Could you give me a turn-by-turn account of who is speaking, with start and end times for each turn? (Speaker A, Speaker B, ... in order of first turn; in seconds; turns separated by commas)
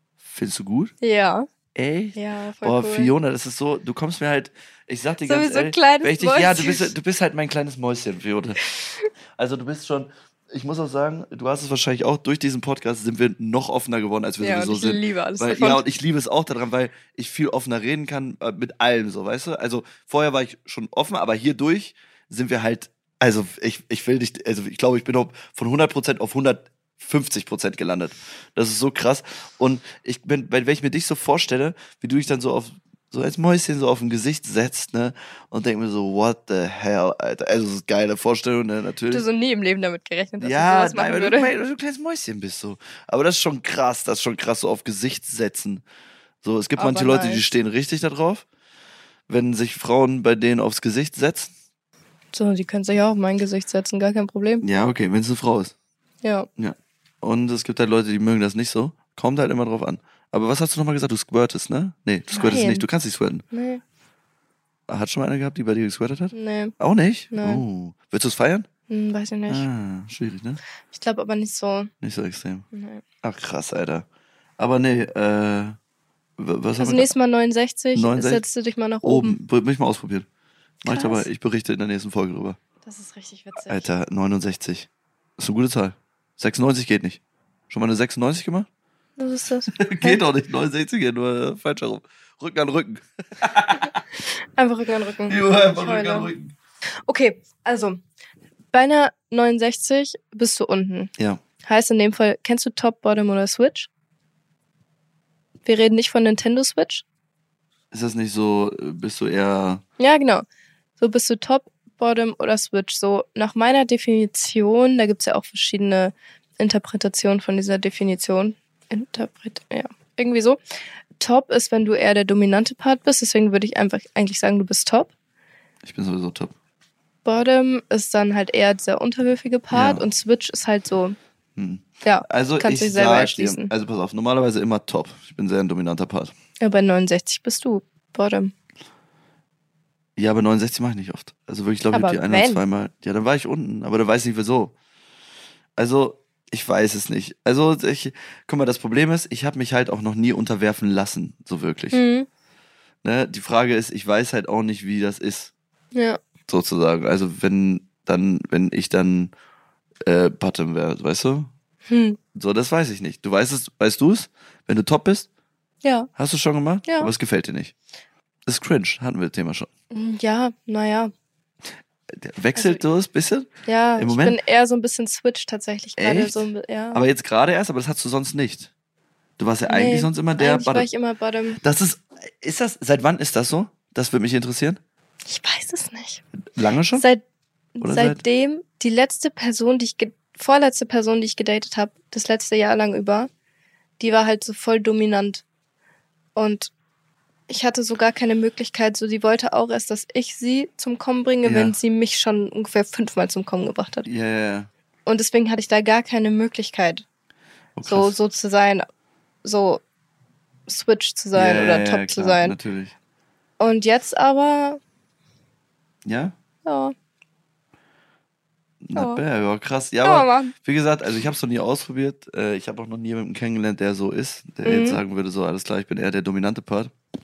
Speaker A: 0.2-0.9, Speaker B: 1.0-1.5, Speaker A: 1.7-8.6, Speaker B: 2.1-3.1, Speaker B: 5.2-6.9, Speaker B: 8.7-9.1, Speaker A: 9.4-39.2, Speaker B: 14.4-15.8, Speaker B: 39.1-41.5, Speaker A: 40.4-45.8, Speaker A: 46.4-48.4, Speaker B: 46.8-47.5, Speaker A: 49.3-51.5, Speaker B: 52.3-54.6, Speaker A: 54.6-55.7, Speaker B: 56.2-56.5, Speaker A: 56.6-63.4, Speaker B: 62.3-62.9, Speaker B: 63.5-63.8, Speaker A: 64.9-68.7, Speaker B: 66.3-66.7, Speaker B: 67.3-67.6, Speaker B: 68.9-69.7, Speaker A: 69.5-70.6, Speaker B: 70.9-71.9, Speaker A: 72.0-72.6, Speaker B: 72.7-73.0, Speaker A: 73.2-74.0, Speaker A: 74.6-75.8, Speaker A: 76.4-77.1, Speaker B: 76.8-79.4, Speaker A: 77.9-78.4, Speaker A: 79.0-80.2, Speaker A: 80.8-82.6, Speaker B: 80.8-81.3, Speaker B: 82.8-83.9, Speaker A: 83.7-88.7, Speaker B: 89.2-90.2, Speaker A: 89.7-94.0, Speaker B: 94.5-96.3, Speaker A: 95.3-96.5, Speaker B: 97.0-98.0, Speaker B: 98.7-103.9, Speaker B: 105.6-107.0, Speaker A: 107.9-109.8, Speaker B: 110.0-110.4, Speaker B: 111.0-120.6, Speaker B: 121.2-125.1, Speaker A: 125.8-126.5, Speaker B: 127.2-131.2, Speaker A: 129.7-130.0, Speaker A: 131.6-136.3, Speaker B: 132.0-133.7, Speaker B: 136.6-138.5, Speaker A: 140.2-144.7, Speaker B: 141.9-142.6, Speaker A: 145.8-152.0, Speaker B: 151.9-152.3, Speaker A: 153.0-155.5, Speaker B: 155.9-156.2, Speaker A: 156.5-159.3, Speaker A: 160.0-161.5, Speaker B: 161.9-162.2, Speaker A: 162.3-165.3, Speaker B: 165.8-166.1, Speaker A: 166.1-167.7, Speaker B: 166.8-167.1, Speaker A: 168.5-169.7, Speaker B: 169.9-171.1, Speaker A: 172.1-174.4, Speaker B: 172.5-172.8, Speaker B: 173.6-177.0, Speaker A: 176.0-178.7, Speaker A: 179.4-180.9, Speaker B: 179.6-181.6, Speaker A: 181.6-184.8, Speaker B: 185.2-186.2, Speaker A: 186.5-187.1, Speaker B: 186.9-187.2, Speaker B: 187.8-193.3, Speaker A: 187.8-188.2, Speaker B: 194.0-195.4, Speaker B: 196.3-196.7, Speaker B: 197.5-204.1, Speaker A: 201.4-201.7, Speaker A: 204.0-204.7, Speaker B: 205.1-207.0, Speaker A: 207.8-208.1, Speaker B: 207.8-208.9, Speaker B: 209.4-209.8, Speaker B: 210.7-212.6, Speaker A: 211.3-212.9, Speaker B: 213.6-214.8, Speaker A: 216.1-216.3, Speaker B: 216.6-216.9, Speaker A: 218.8-226.9, Speaker B: 218.9-219.2, Speaker B: 220.0-220.5, Speaker B: 224.6-225.0